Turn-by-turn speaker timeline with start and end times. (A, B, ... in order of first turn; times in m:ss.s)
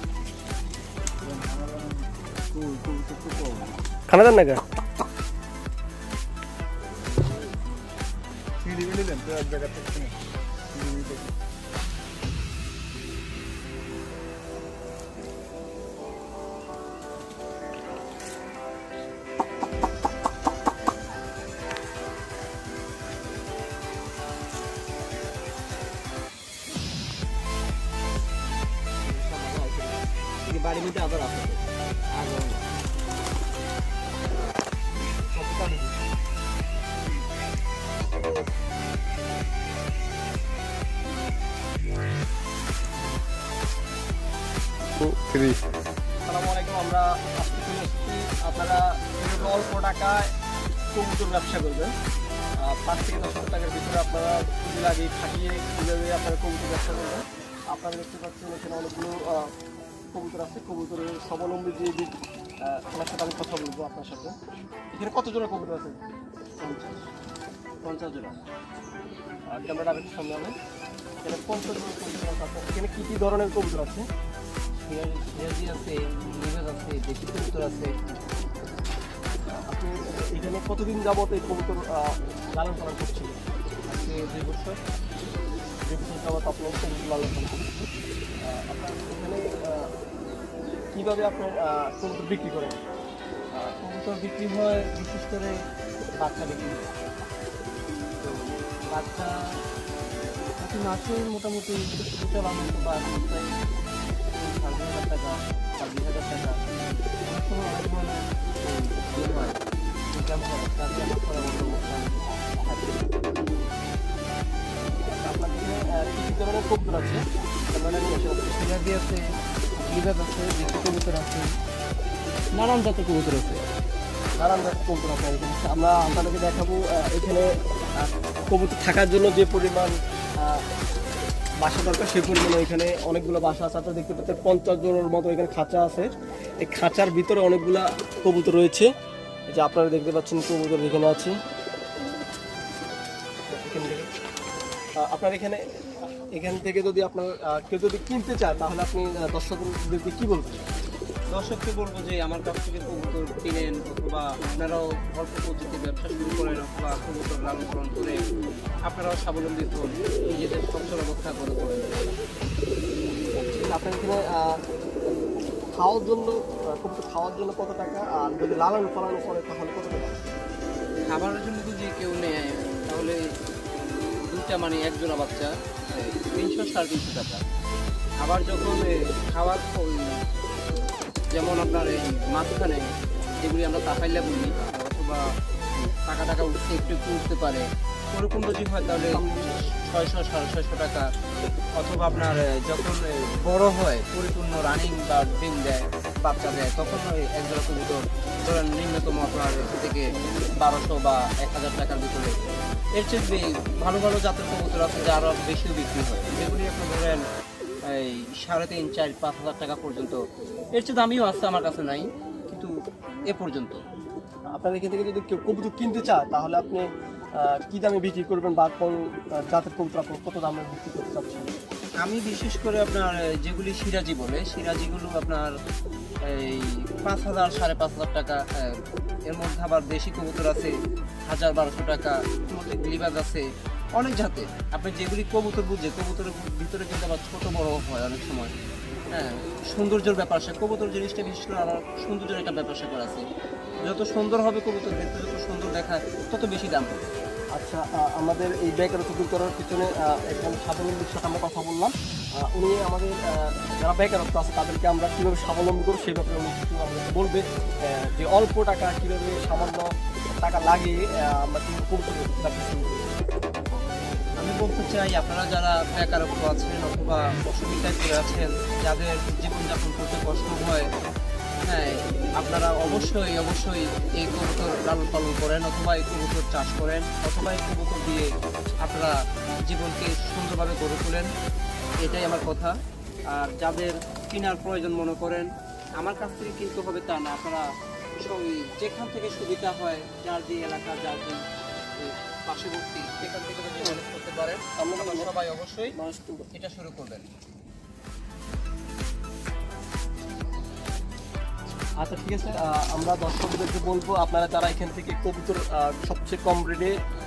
0:01.2-0:02.1 A
0:02.5-0:03.7 B
0:04.1-0:04.6 C
0:08.6-0:10.2 A
0:10.7-0:11.3 A
0:29.0-0:32.6 B
0:35.4-0:36.0 B
0:46.3-0:50.3 C
0:50.9-0:51.9 C
0:52.6-0:59.5 C
1:00.1-1:04.4 C
1:04.9-1:06.0 C
1:06.6-1:07.1 B
1:07.8-1:08.4 B
1:09.5-1:10.6 C
1:11.2-1:14.0 C
1:14.8-1:17.9 B
1:19.7-1:23.4 C
1:23.9-1:24.8 B
1:25.9-1:27.9 C
1:28.4-1:29.9 C
1:30.9-1:32.8 C
1:33.6-1:35.6 B
1:36.2-1:37.0 B
1:38.2-1:39.5 B
1:40.6-1:43.6 B
1:44.3-1:49.6 B
1:50.1-1:53.2 B
1:55.2-1:57.2 C
1:57.7-1:58.5 C
1:58.5-1:59.3 B
1:59.8-2:01.6 B
2:02.5-2:03.6 B
2:04.4-2:10.6 C
2:11.6-2:16.1 C
2:16.6-2:18.9 C
2:19.5-2:21.4 C
2:23.5-2:24.1 C
2:25.0-2:25.6 C
2:26.4-2:30.7 C
2:31.3-2:38.2 B
2:38.9-2:42.1 B
2:43.5-2:44.6 C
2:45.8-2:50.3 C
2:51.0-2:53.2 B
2:54.3-2:57.5 B
2:58.2-3:00.2 B
3:01.3-3:02.9 B
3:03.4-3:05.2 B
3:05.8-3:11.1 B
3:09.1-3:09.5 C
3:11.8-3:22.4 B
3:23.0-3:27.2 B
3:27.8-3:30.2 B
3:30.8-3:32.7 B
3:33.3-3:33.8 B
3:34.5-3:41.5 C
3:42.0-3:45.5 B
3:46.2-3:50.7 B
3:51.3-3:58.5 B
3:59.1-4:03.2 B
4:03.8-4:07.1 B
4:07.6-4:19.9 C
4:20.4-4:23.2 C
4:24.4-4:30.9 B
4:31.6-4:38.3 B
4:38.8-4:41.3 B
4:42.0-4:42.8 B
4:43.3-4:47.7 B
4:48.2-4:51.4 B
4:52.0-4:56.0 B
4:54.8-4:55.3 C
4:56.0-4:56.5 C
4:56.5-4:57.3 B
5:02.0-5:07.0 C